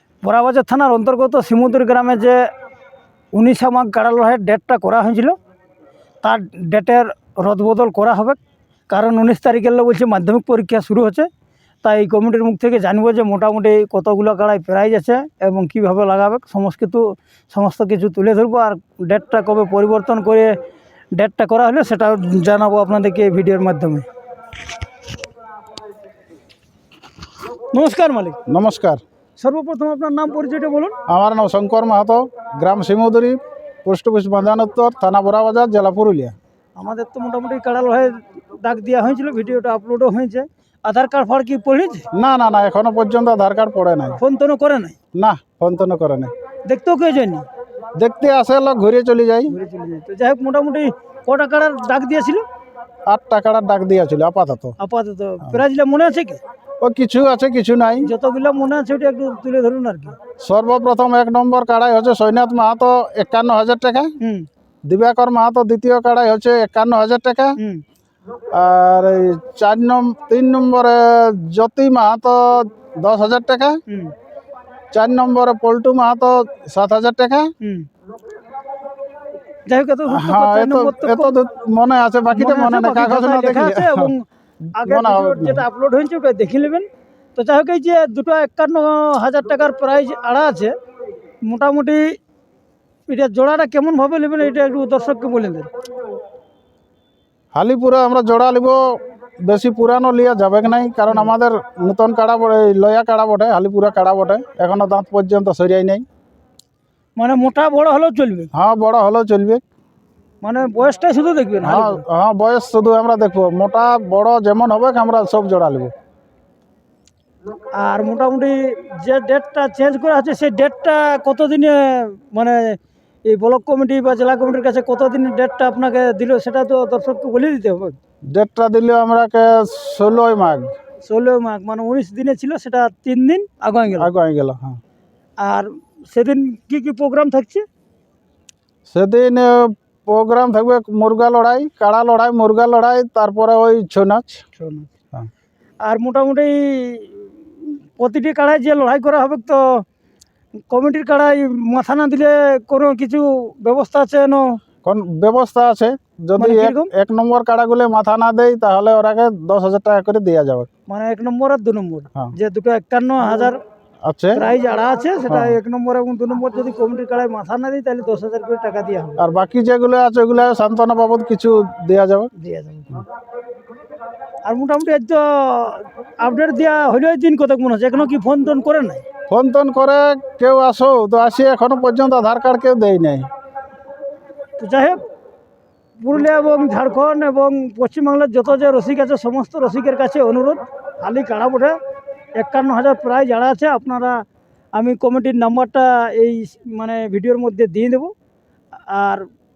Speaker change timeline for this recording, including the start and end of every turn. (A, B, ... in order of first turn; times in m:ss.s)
0:00.2-0:02.5 A
0:03.3-0:05.4 A
0:06.2-0:11.3 A
0:11.8-0:20.6 A
0:21.1-0:24.1 A
0:27.7-0:28.4 A
0:28.5-0:29.0 B
0:29.4-0:31.0 A
0:31.1-0:36.4 B
0:36.8-0:42.1 A
0:42.1-0:44.2 B
0:44.2-0:45.0 A
0:45.2-0:46.3 B
0:46.7-0:47.5 A
0:48.0-0:49.5 B
0:49.5-0:52.4 A
0:53.1-0:54.8 B
0:54.8-0:56.4 A
0:56.8-0:58.1 B
0:58.0-1:00.2 A
1:00.4-1:04.1 B
1:04.2-1:04.5 A
1:04.9-1:07.6 B
1:08.5-1:13.8 B
1:13.9-1:14.1 A
1:14.9-1:17.5 B
1:17.6-1:17.9 A
1:19.7-1:21.4 A
1:20.1-1:24.1 B
1:22.3-1:30.7 A
1:24.8-1:25.6 B
1:31.4-1:32.2 A
1:33.1-1:35.7 A
1:37.6-1:46.0 B
1:47.2-1:48.5 A
1:48.5-1:49.6 B
1:50.4-1:52.0 A
1:51.6-1:55.9 B
1:57.8-2:08.0 A
2:08.3-2:10.7 B
2:11.0-2:14.1 A
2:13.9-2:14.8 B
2:15.4-2:17.7 A
2:18.9-2:24.4 B
2:24.6-2:24.9 A
2:25.8-2:29.8 A
2:30.7-2:34.6 A
2:34.8-2:40.7 B
2:36.4-2:36.9 A
2:40.9-2:43.6 A
2:44.0-2:44.4 B
2:44.4-2:49.2 A
2:45.3-2:45.6 B
2:49.2-2:52.3 B
2:52.4-2:53.0 A
2:54.5-2:59.0 A
2:59.3-3:03.3 B
3:04.6-3:05.0 A
3:06.0-3:11.8 A
3:12.4-3:14.2 A
3:14.8-3:18.1 A
3:18.8-3:19.3 A